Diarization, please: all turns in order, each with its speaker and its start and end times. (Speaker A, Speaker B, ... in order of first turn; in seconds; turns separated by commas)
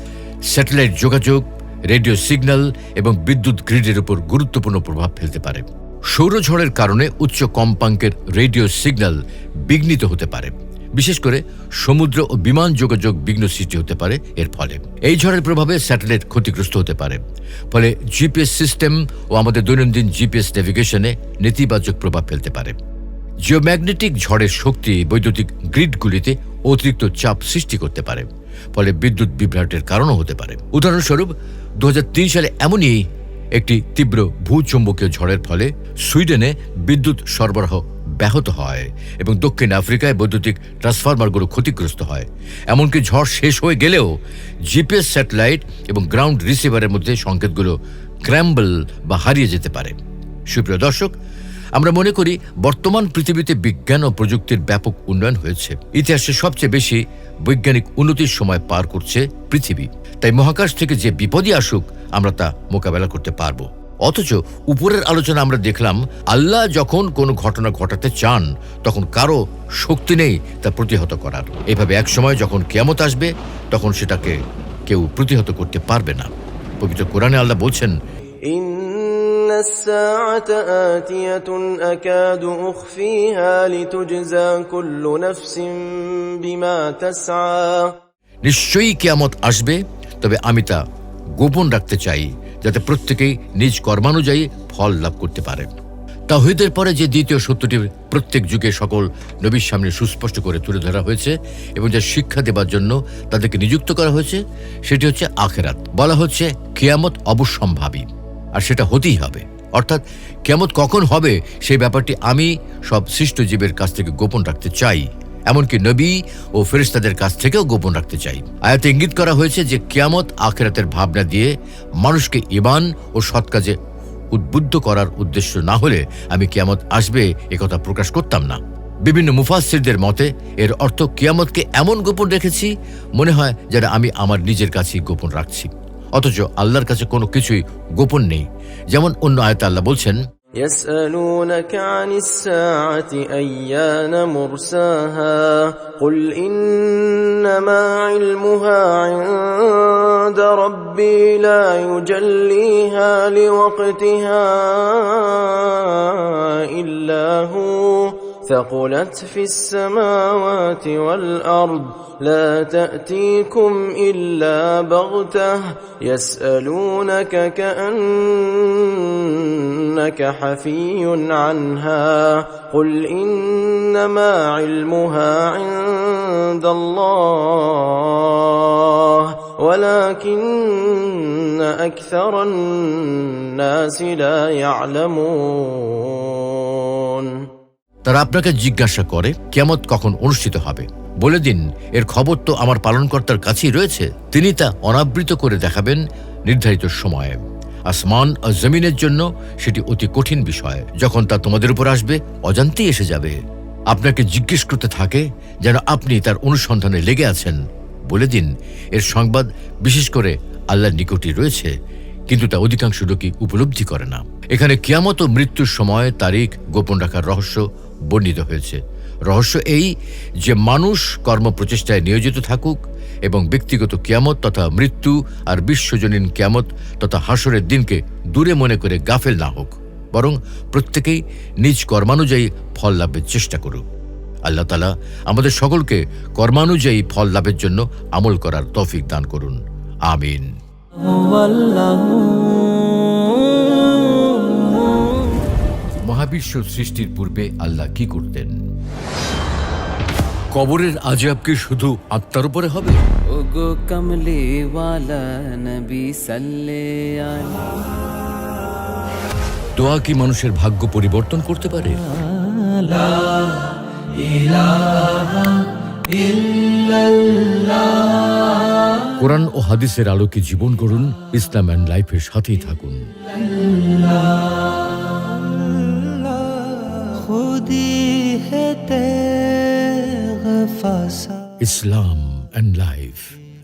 Speaker A: 0.5-22.8, Speaker A: 23.5-33.0, Speaker A: 33.6-44.1, Speaker A: 44.7-47.8, Speaker A: 48.3-50.0, Speaker A: 50.5-51.1, Speaker A: 51.8-74.4, Speaker A: 74.9-77.9, Speaker B: 78.5-88.0, Speaker A: 88.5-90.8, Speaker A: 91.4-95.7, Speaker A: 96.3-123.8, Speaker A: 124.3-140.2, Speaker B: 140.6-187.4, Speaker A: 188.1-203.4, Speaker A: 203.9-211.7, Speaker A: 212.3-233.8, Speaker A: 234.5-240.5, Speaker C: 241.0-245.3, Speaker A: 246.1-248.6, Speaker A: 250.5-253.1, Speaker C: 253.3-257.9, Speaker A: 259.8-262.0, Speaker C: 262.5-268.9, Speaker A: 269.1-273.0, Speaker C: 273.7-276.3, Speaker C: 277.1-281.4, Speaker A: 281.6-283.4